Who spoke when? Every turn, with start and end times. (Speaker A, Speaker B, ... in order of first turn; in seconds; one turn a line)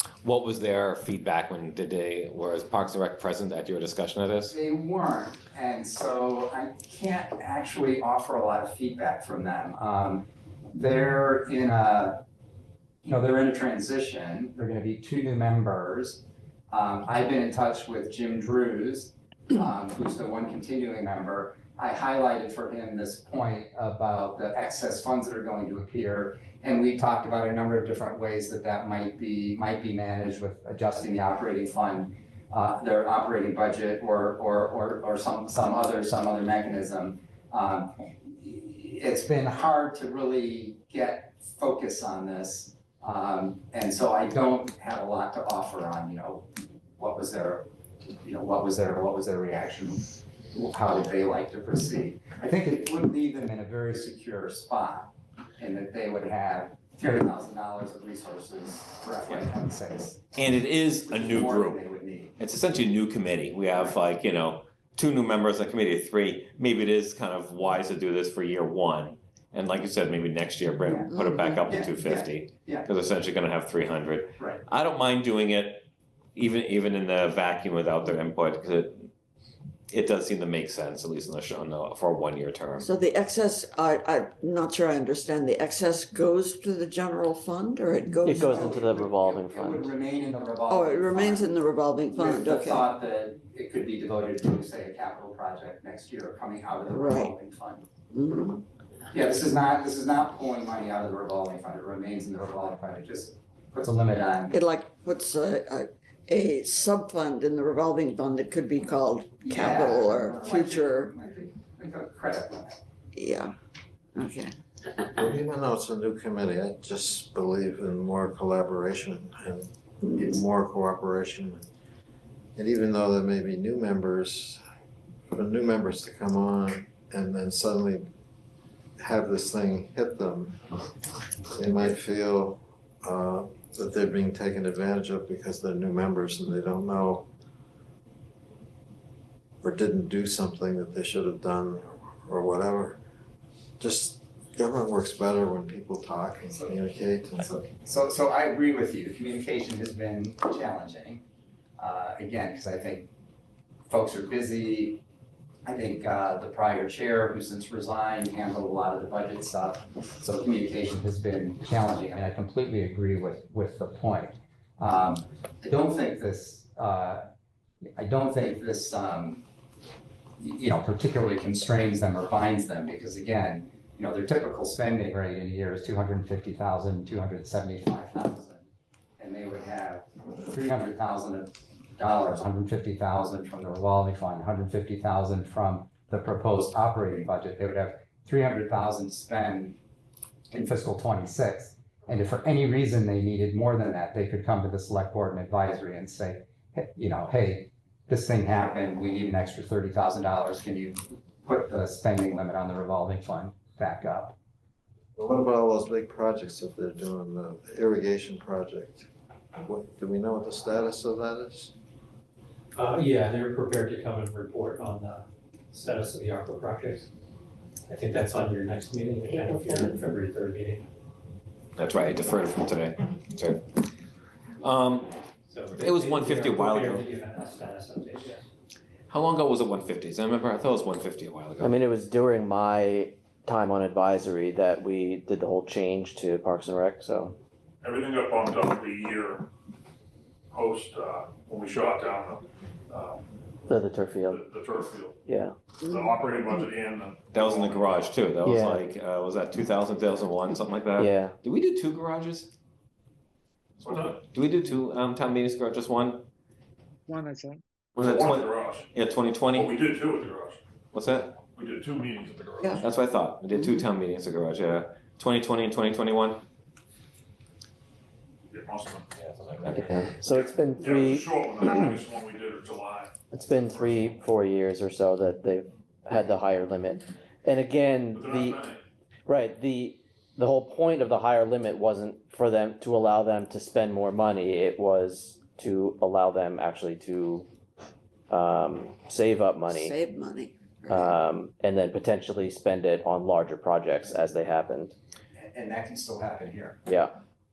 Speaker A: 0.2-4.5
Speaker B: 4.5-12.2
Speaker B: 13.0-47.7
Speaker B: 48.2-60.4
Speaker A: 60.4-61.8
Speaker B: 61.0-62.3
Speaker A: 62.4-79.1
Speaker B: 70.8-71.1
Speaker C: 71.2-71.5
Speaker B: 71.7-72.9
Speaker A: 79.9-82.9
Speaker C: 82.8-88.9
Speaker D: 88.2-89.7
Speaker B: 88.5-91.6
Speaker C: 90.7-92.8
Speaker B: 92.1-97.8
Speaker C: 96.9-97.3
Speaker C: 98.1-98.6
Speaker B: 99.1-104.6
Speaker C: 104.5-111.1
Speaker B: 109.4-112.8
Speaker C: 113.1-113.5
Speaker C: 114.1-115.0
Speaker E: 115.1-121.6
Speaker E: 122.5-124.6
Speaker E: 125.3-128.1
Speaker E: 129.0-130.6
Speaker E: 131.5-137.3
Speaker E: 139.6-143.0
Speaker E: 143.8-147.7
Speaker B: 147.8-151.2
Speaker B: 151.8-153.1
Speaker B: 153.9-155.0
Speaker B: 155.7-167.3
Speaker B: 168.0-169.4
Speaker B: 170.4-178.6
Speaker B: 179.2-189.8
Speaker B: 190.5-204.3
Speaker E: 205.2-209.1
Speaker E: 209.6-211.7
Speaker F: 212.7-217.1
Speaker F: 217.9-220.8
Speaker A: 221.8-223.7
Speaker A: 224.6-225.2
Speaker F: 225.5-228.4
Speaker A: 225.7-227.1
Speaker A: 229.1-231.8
Speaker D: 231.6-237.3
Speaker G: 237.8-239.5
Speaker G: 240.5-243.2
Speaker D: 243.7-244.4
Speaker G: 244.3-245.2
Speaker D: 245.2-245.5
Speaker G: 245.8-248.0
Speaker A: 247.3-252.5
Speaker D: 248.4-248.8
Speaker D: 251.0-251.3
Speaker G: 253.8-254.2
Speaker A: 253.9-256.3
Speaker A: 257.9-259.7
Speaker G: 258.0-258.9
Speaker G: 259.5-260.6
Speaker A: 260.9-261.3
Speaker G: 261.5-262.8
Speaker A: 262.8-266.4
Speaker G: 268.5-269.1
Speaker A: 269.2-269.9
Speaker D: 269.7-271.2
Speaker G: 270.3-273.1
Speaker D: 273.3-278.6
Speaker G: 278.1-278.8
Speaker D: 279.3-287.4
Speaker D: 288.3-289.9
Speaker C: 289.7-291.1
Speaker D: 290.9-294.9
Speaker B: 295.4-296.8
Speaker D: 296.9-297.1